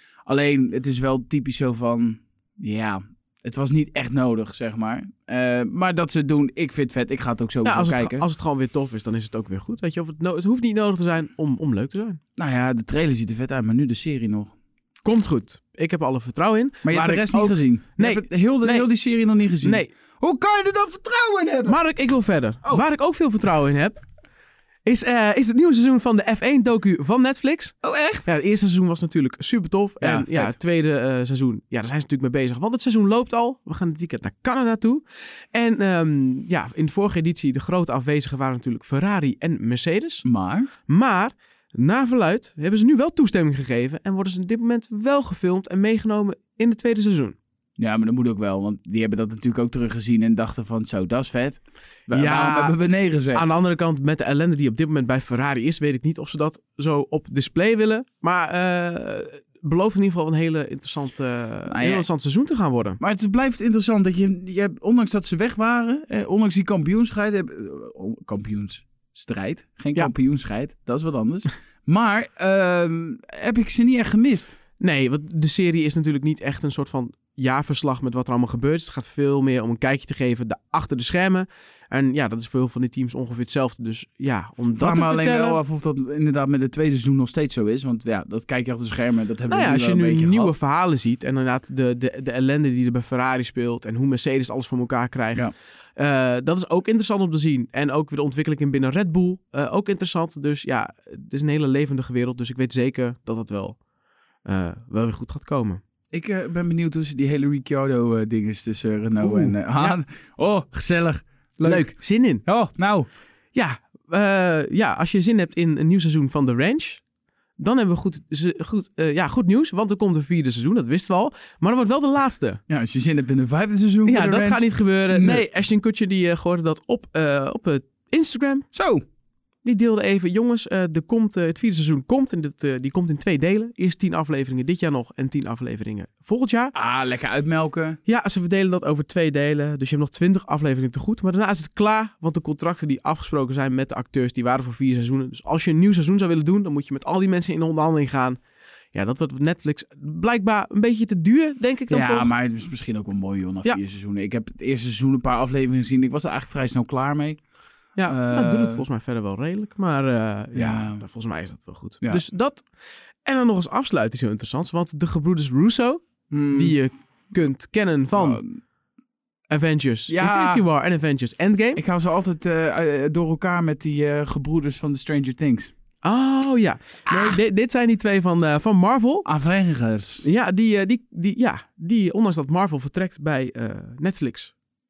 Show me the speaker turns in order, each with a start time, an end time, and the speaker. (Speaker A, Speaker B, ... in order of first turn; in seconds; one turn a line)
Speaker A: 0.3-8.2
Speaker B: 7.6-12.2
Speaker A: 12.4-14.5
Speaker B: 15.0-18.9
Speaker A: 16.8-21.8
Speaker B: 19.6-19.9
Speaker B: 21.7-24.0
Speaker B: 24.9-40.2
Speaker A: 27.8-28.3
Speaker A: 30.0-30.6
Speaker A: 40.2-40.7
Speaker B: 40.9-47.4
Speaker A: 47.8-53.4
Speaker B: 52.1-52.8
Speaker B: 53.3-63.0
Speaker A: 61.7-62.1
Speaker A: 63.0-74.6
Speaker B: 74.8-85.6
Speaker A: 84.8-90.5
Speaker B: 89.5-103.8
Speaker B: 104.5-105.8
Speaker A: 106.1-113.1
Speaker B: 109.2-110.0
Speaker B: 111.7-112.4
Speaker B: 113.5-117.0
Speaker B: 117.6-122.6
Speaker A: 122.7-125.5
Speaker B: 124.1-128.7
Speaker A: 128.7-129.0
Speaker B: 129.6-136.8
Speaker A: 136.8-138.0
Speaker B: 138.1-148.4
Speaker B: 148.9-152.3
Speaker A: 151.9-157.4
Speaker B: 158.0-162.6
Speaker A: 158.1-158.8
Speaker A: 160.6-161.0
Speaker B: 163.2-168.4
Speaker A: 166.3-166.8
Speaker A: 168.1-168.6
Speaker B: 169.5-171.8
Speaker A: 170.1-170.6
Speaker A: 171.8-175.7
Speaker B: 176.0-179.3
Speaker A: 179.2-180.2
Speaker B: 180.2-184.5